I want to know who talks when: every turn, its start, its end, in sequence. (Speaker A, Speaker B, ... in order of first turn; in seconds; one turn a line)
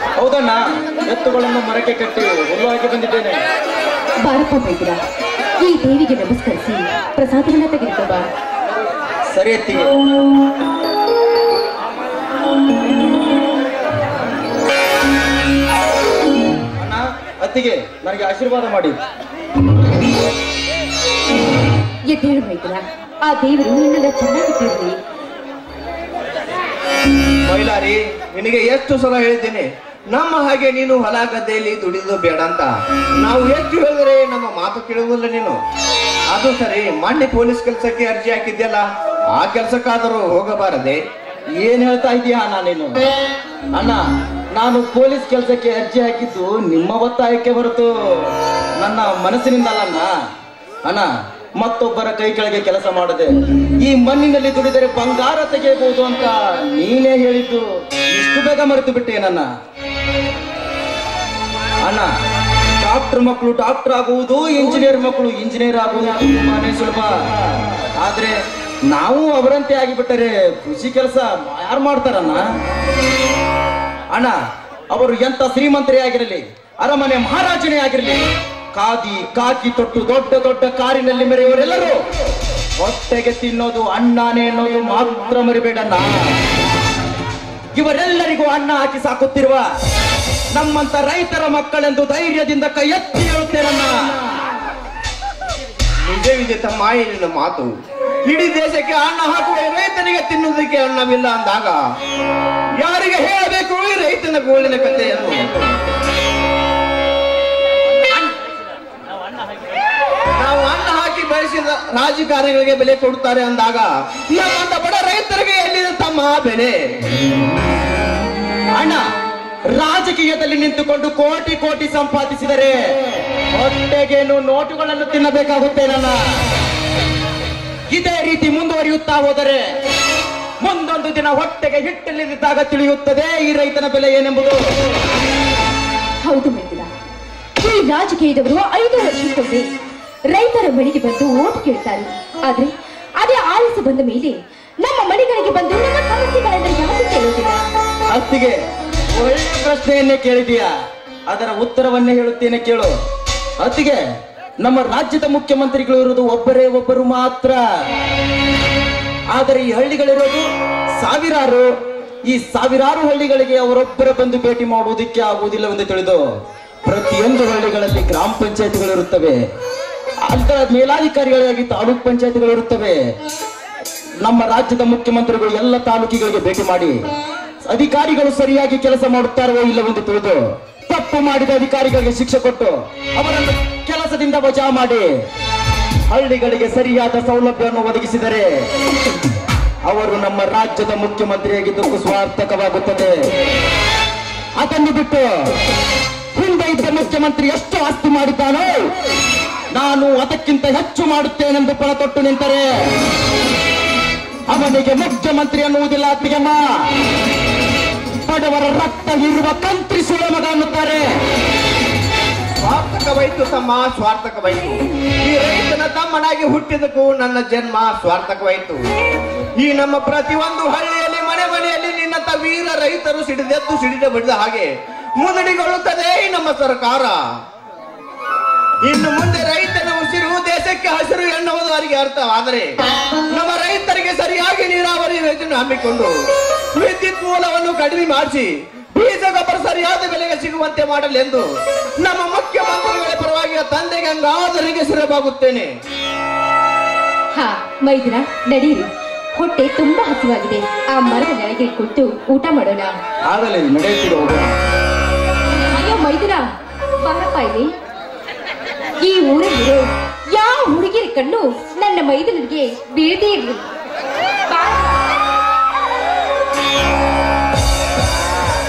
Speaker A: 0.2-3.4
Speaker B: 4.2-5.0
Speaker B: 5.6-8.3
Speaker A: 9.3-9.9
Speaker A: 16.8-19.0
Speaker B: 22.1-25.0
Speaker C: 27.4-32.7
Speaker C: 33.2-35.5
Speaker C: 36.3-41.0
Speaker A: 41.6-43.0
Speaker A: 43.7-44.0
Speaker A: 44.5-50.1
Speaker A: 50.8-59.5
Speaker A: 61.8-62.1
Speaker A: 62.8-67.1
Speaker A: 68.0-68.3
Speaker A: 68.9-72.5
Speaker A: 74.9-78.2
Speaker A: 78.7-82.0
Speaker A: 82.8-86.4
Speaker A: 87.7-89.6
Speaker A: 90.5-94.2
Speaker C: 96.0-97.7
Speaker C: 98.3-101.8
Speaker C: 102.8-105.7
Speaker C: 110.4-116.8
Speaker A: 118.7-119.0
Speaker A: 119.7-122.8
Speaker A: 123.5-126.2
Speaker A: 127.9-129.6
Speaker A: 130.6-134.6
Speaker B: 136.2-136.9
Speaker B: 137.6-139.7
Speaker B: 140.3-147.6
Speaker A: 148.1-148.6
Speaker A: 149.1-150.7
Speaker A: 151.3-152.9
Speaker A: 153.6-154.0
Speaker A: 154.6-157.6
Speaker A: 159.3-160.4
Speaker A: 161.0-161.7
Speaker A: 162.3-166.2
Speaker A: 166.8-169.4
Speaker A: 170.3-173.0
Speaker A: 174.2-177.0
Speaker A: 177.7-185.1
Speaker A: 186.1-188.4
Speaker A: 189.8-193.3
Speaker A: 194.6-195.3
Speaker A: 196.3-198.9
Speaker A: 199.7-202.6
Speaker A: 204.5-206.6
Speaker A: 208.2-211.0
Speaker C: 212.6-218.8
Speaker C: 219.6-227.2
Speaker C: 228.8-232.7
Speaker C: 233.3-236.1
Speaker C: 236.8-241.4
Speaker C: 242.0-245.7
Speaker B: 247.3-252.9
Speaker A: 253.3-254.5
Speaker B: 255.7-256.4
Speaker B: 257.0-257.7
Speaker B: 259.0-263.6
Speaker B: 264.5-265.0